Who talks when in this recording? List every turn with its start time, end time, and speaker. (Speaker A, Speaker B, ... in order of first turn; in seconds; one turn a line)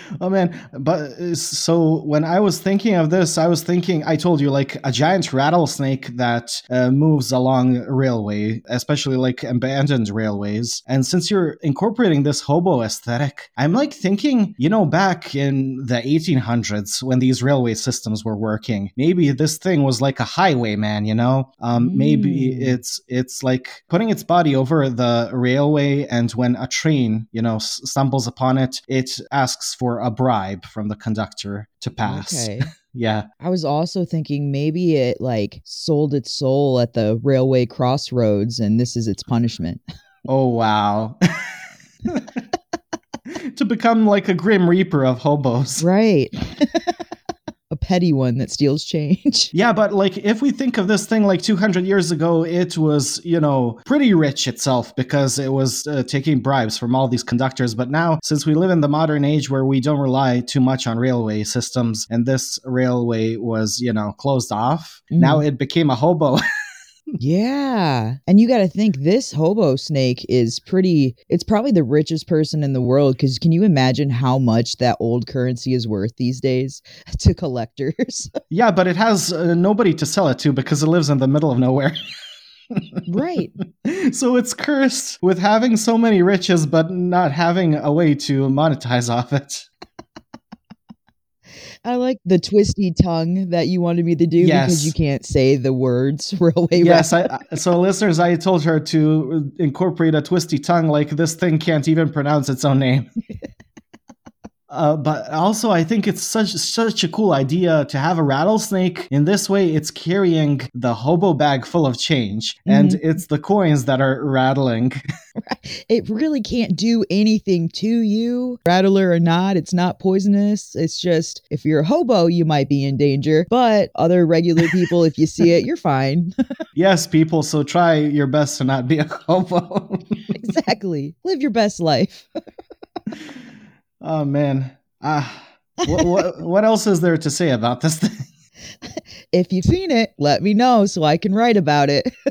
Speaker A: 0.2-33.3
Speaker B: 21.7-22.8
Speaker B: 32.0-32.7
Speaker B: 33.4-39.8
Speaker A: 40.3-41.2
Speaker A: 42.1-42.4
Speaker A: 43.5-45.8
Speaker B: 45.8-46.9
Speaker B: 47.7-49.5
Speaker A: 49.5-66.4
Speaker B: 65.1-65.4
Speaker B: 67.2-78.3
Speaker A: 78.5-82.0
Speaker B: 83.0-83.5
Speaker A: 83.8-89.7
Speaker B: 91.8-97.1
Speaker A: 94.4-94.9
Speaker A: 96.8-103.1
Speaker A: 104.7-115.0
Speaker B: 112.7-113.0
Speaker B: 115.4-126.3
Speaker A: 126.8-130.4
Speaker B: 130.3-132.3
Speaker A: 134.0-138.2
Speaker B: 135.9-136.2
Speaker B: 138.9-142.1